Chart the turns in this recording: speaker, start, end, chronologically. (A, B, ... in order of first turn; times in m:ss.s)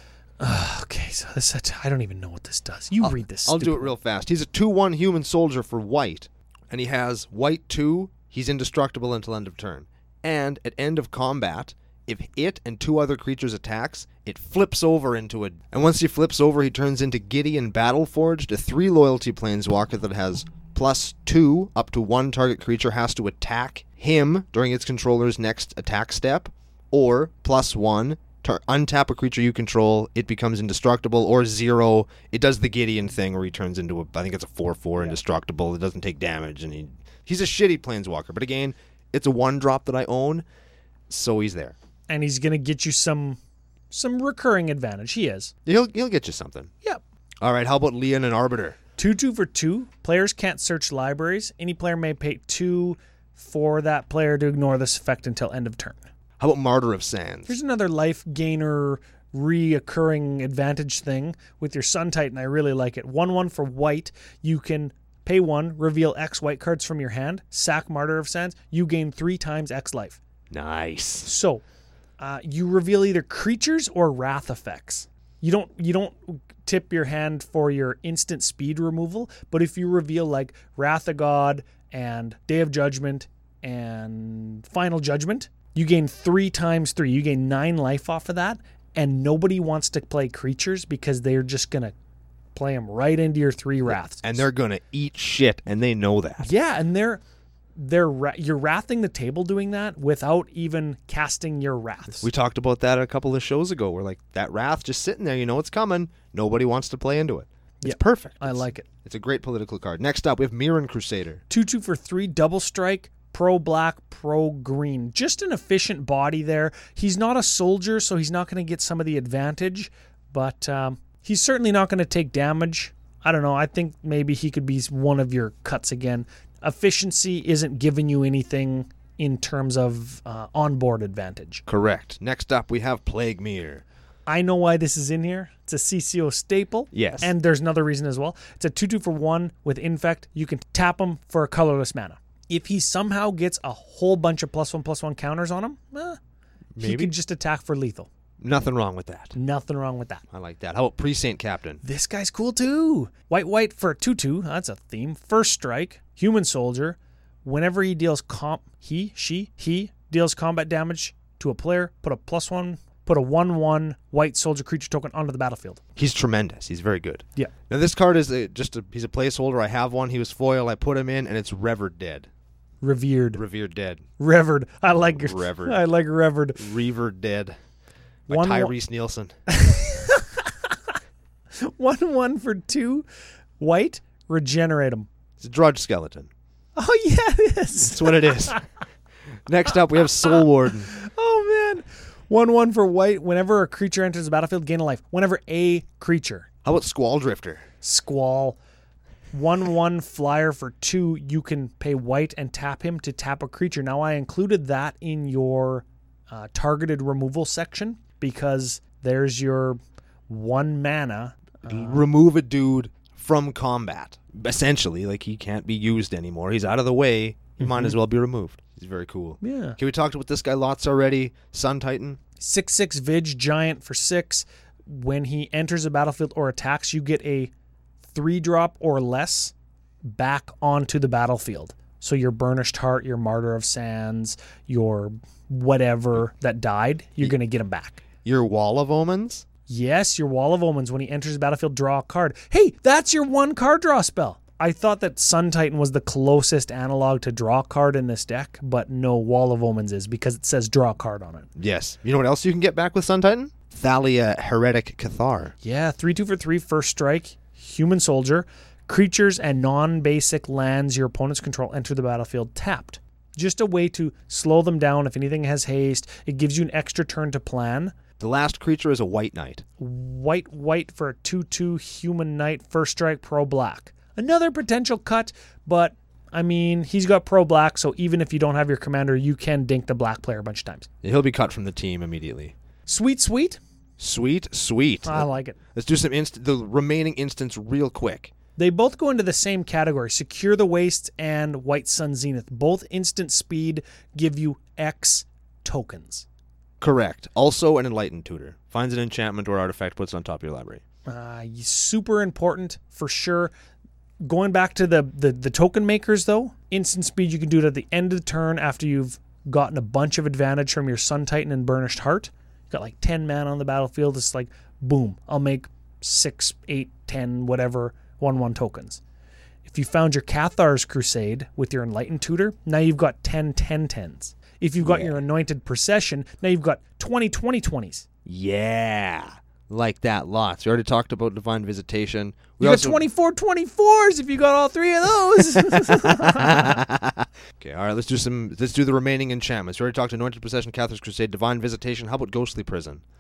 0:00.4-0:03.9 A
0:03.0-0:40.4 B
0:41.1-0:41.8 B
0:42.1-0:43.4 A
0:43.9-0:45.5 A
0:45.6-0:46.7 B
0:47.4-0:48.8 B
0:49.0-0:56.0 A
0:56.4-0:57.6 B
0:57.5-1:10.2 A
1:10.5-1:11.3 B
1:11.2-1:11.6 A
1:12.2-1:32.0 A
1:32.6-1:34.5 A
1:33.9-1:36.5 B
1:36.4-1:37.2 A
1:37.8-1:42.3 A
1:42.2-1:51.4 B
1:47.8-1:48.9 A
1:51.5-2:11.6 A
2:11.7-2:13.8 B
2:14.3-2:26.2 A
2:16.9-2:17.3 B
2:26.8-2:27.1 B
2:26.8-2:28.1 A
2:28.4-2:29.4 B
2:29.4-2:30.3 A
2:30.3-2:31.8 B
2:31.8-2:45.8 A
2:46.0-2:52.3 B
2:52.8-2:53.4 A
2:53.3-2:54.0 B
2:54.2-2:56.7 A
2:55.1-2:55.8 B
2:56.6-2:57.6 B
2:58.3-2:58.7 A
2:58.3-2:59.3 B
2:59.5-3:00.8 A
3:01.5-3:03.1 A
3:03.6-3:05.1 A
3:05.4-3:06.3 B
3:06.8-3:08.6 A
3:07.8-3:08.6 B
3:09.5-3:10.9 B
3:10.9-3:16.5 A
3:16.6-3:17.7 B
3:17.8-3:18.6 A
3:19.3-3:32.0 A
3:31.7-3:42.2 B
3:37.6-3:38.0 A
3:39.4-3:39.8 A
3:42.4-3:47.5 A
3:48.1-3:49.5 A
3:50.0-3:58.0 A
3:58.2-3:59.5 B
3:59.7-4:11.5 A
4:11.6-4:15.5 B
4:15.6-4:27.9 A
4:28.2-4:29.6 B
4:29.8-4:40.9 A
4:41.0-4:42.6 B
4:42.9-4:43.6 A
4:44.0-4:48.3 B
4:45.0-4:45.6 A
4:48.6-4:56.3 A
4:56.8-5:00.8 B
5:01.1-5:03.5 A
5:04.2-5:19.0 A
5:19.6-5:28.0 A
5:24.8-5:25.2 B
5:28.3-5:33.0 B
5:32.6-5:36.8 A
5:35.5-5:43.0 B